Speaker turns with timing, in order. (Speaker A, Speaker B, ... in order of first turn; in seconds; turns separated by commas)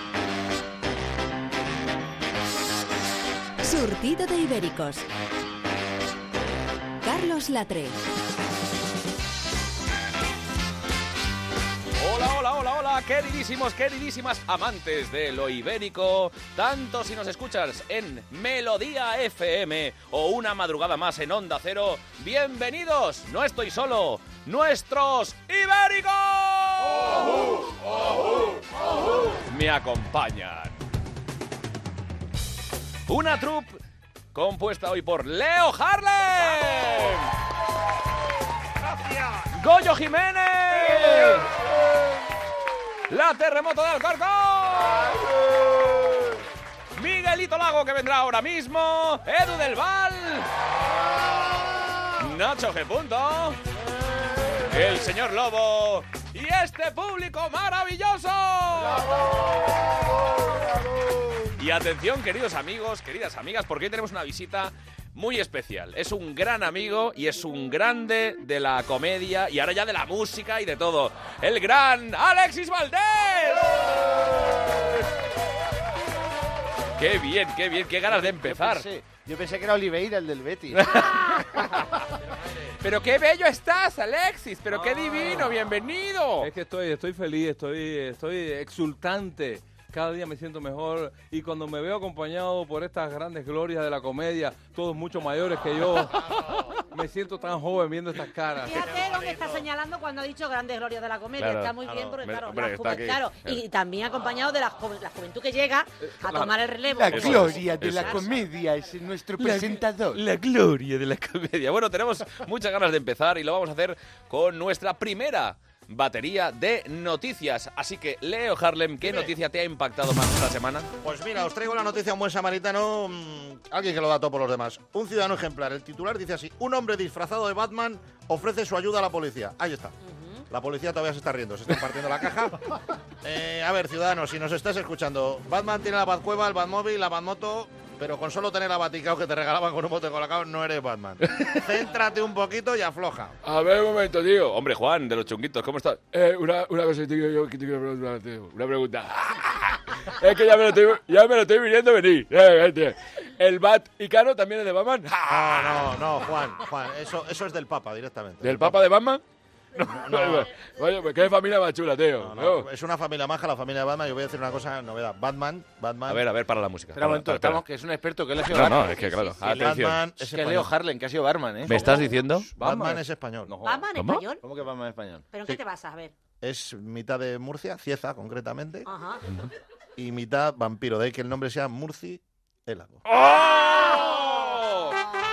Speaker A: 3.6-5.0, Speaker A: 7.0-8.0, Speaker B: 11.9-27.3, Speaker B: 29.4-30.8, Speaker B: 33.1-33.8, Speaker B: 34.3-37.3, Speaker B: 39.5-41.5, Speaker B: 43.1-45.2, Speaker B: 46.9-50.5, Speaker B: 52.1-53.6, Speaker B: 54.7-59.1, Speaker B: 61.6-73.9, Speaker B: 77.0-78.8, Speaker C: 78.1-81.0, Speaker B: 80.8-81.6, Speaker B: 82.8-86.5, Speaker D: 84.7-85.5, Speaker D: 86.4-98.9, Speaker E: 98.6-108.4, Speaker F: 98.9-99.6, Speaker B: 101.4-103.6, Speaker D: 106.2-106.5, Speaker B: 107.1-108.3, Speaker C: 107.6-108.0, Speaker B: 109.4-120.9, Speaker F: 119.0-119.3, Speaker F: 121.0-129.9, Speaker E: 130.1-130.4, Speaker F: 130.5-132.6, Speaker F: 133.2-143.4, Speaker G: 143.4-144.5, Speaker B: 144.4-146.0, Speaker G: 146.1-155.8, Speaker F: 155.3-158.8, Speaker G: 158.4-159.2, Speaker G: 159.8-162.7, Speaker F: 159.9-160.5, Speaker F: 162.2-166.2, Speaker B: 166.1-167.6, Speaker C: 166.9-169.0, Speaker B: 168.4-170.0, Speaker E: 168.8-169.4, Speaker F: 169.4-170.7, Speaker C: 170.2-172.1, Speaker B: 171.7-172.5, Speaker F: 171.7-173.5, Speaker D: 172.6-173.8, Speaker E: 173.6-174.4, Speaker B: 174.0-174.2, Speaker C: 174.4-175.2, Speaker E: 175.3-176.1, Speaker F: 176.4-178.9, Speaker E: 178.9-179.2, Speaker F: 180.0-183.0, Speaker B: 183.1-185.0